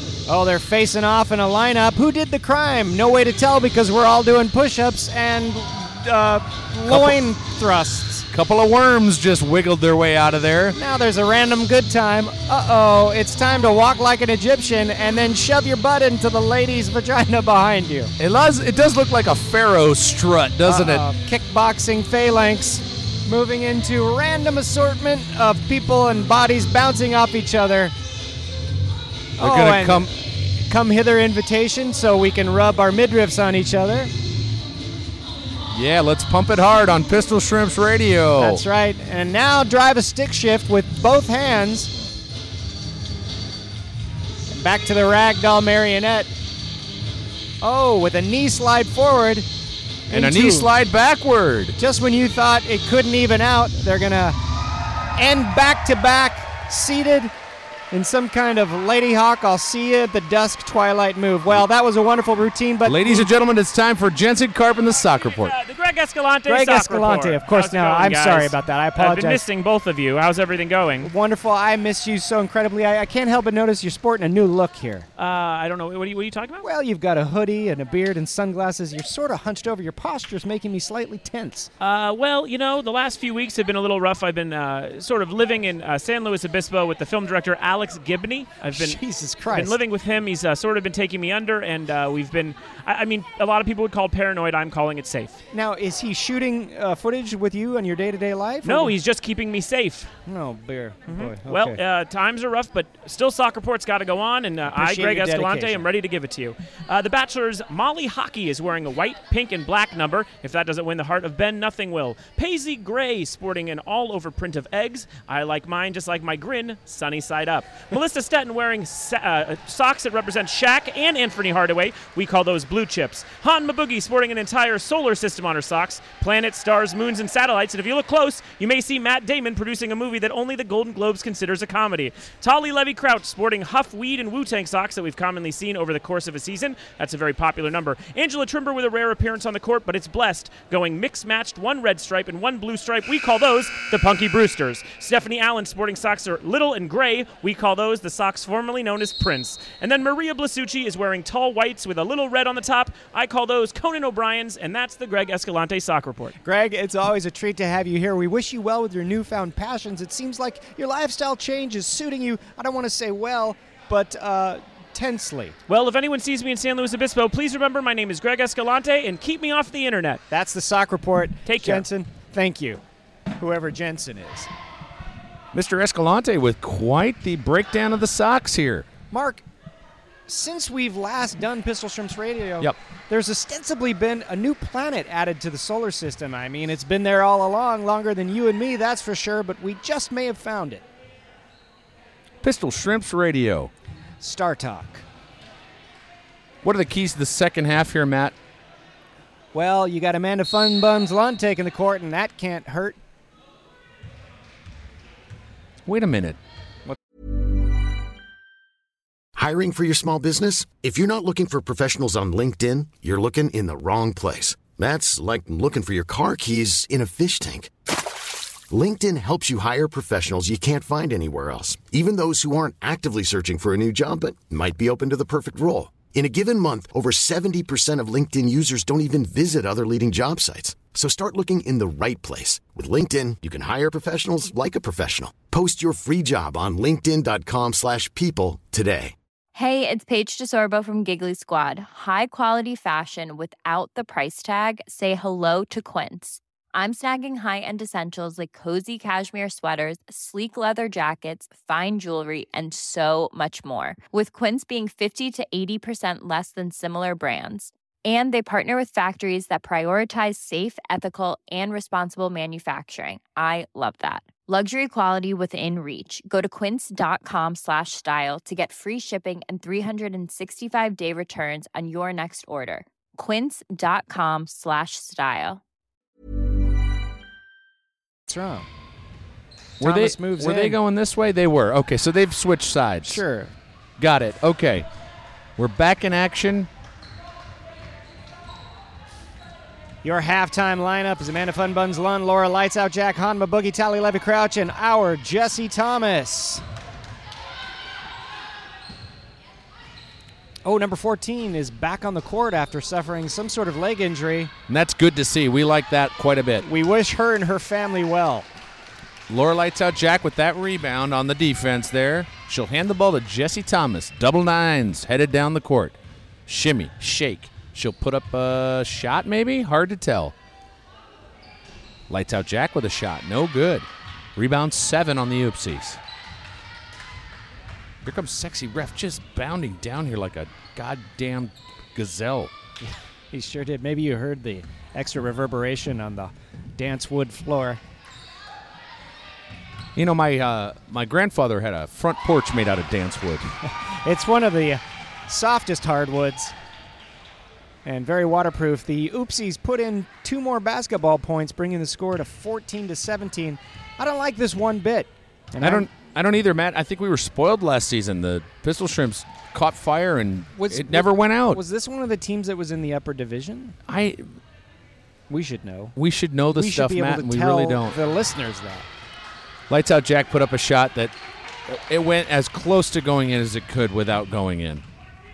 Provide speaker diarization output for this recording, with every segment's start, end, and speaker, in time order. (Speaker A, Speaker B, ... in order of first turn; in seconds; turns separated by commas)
Speaker A: 0.3-8.3, Speaker B: 6.9-7.2, Speaker B: 8.3-10.8, Speaker A: 10.7-18.1, Speaker B: 18.2-21.1, Speaker A: 20.6-27.9, Speaker A: 29.4-34.1, Speaker B: 29.4-30.1, Speaker B: 35.7-38.6, Speaker A: 38.4-41.9, Speaker A: 44.5-46.3, Speaker A: 47.6-49.5, Speaker A: 50.1-50.7, Speaker B: 50.1-51.8, Speaker A: 51.8-54.4, Speaker A: 55.2-57.3, Speaker A: 57.9-63.3, Speaker B: 62.8-65.5, Speaker C: 65.1-71.1, Speaker A: 66.5-69.4, Speaker A: 71.0-75.1, Speaker C: 75.2-76.7, Speaker A: 76.6-81.7, Speaker C: 81.8-95.4, Speaker A: 88.7-89.8, Speaker A: 95.5-99.0, Speaker C: 98.6-100.1, Speaker A: 100.3-101.8, Speaker C: 101.1-156.3, Speaker A: 104.7-105.9, Speaker A: 156.4-165.6, Speaker C: 165.7-170.2, Speaker A: 170.3-172.8, Speaker C: 171.4-171.8, Speaker A: 173.4-174.5, Speaker B: 175.5-178.9, Speaker A: 179.1-179.4, Speaker A: 180.3-190.8, Speaker B: 192.4-193.7, Speaker A: 194.2-195.0, Speaker B: 196.6-198.3, Speaker A: 199.5-203.0, Speaker B: 205.8-206.4, Speaker D: 209.3-217.7, Speaker D: 218.7-239.1, Speaker E: 239.5-275.6, Speaker A: 278.3-278.7, Speaker A: 279.8-280.8, Speaker B: 279.8-283.2, Speaker A: 283.0-283.5, Speaker B: 284.0-284.9, Speaker B: 285.6-286.7, Speaker A: 290.0-296.6, Speaker A: 300.6-304.5, Speaker B: 304.7-306.6, Speaker A: 306.6-308.5, Speaker B: 309.3-320.3, Speaker B: 322.1-326.0, Speaker B: 328.0-332.5, Speaker A: 332.8-337.8, Speaker B: 339.9-343.5, Speaker A: 344.0-346.5, Speaker A: 347.8-355.9, Speaker B: 355.6-361.6, Speaker A: 360.6-363.8, Speaker B: 363.9-364.3, Speaker A: 365.3-365.9, Speaker B: 365.9-368.0, Speaker A: 366.5-368.9, Speaker B: 369.7-371.1, Speaker B: 371.7-374.8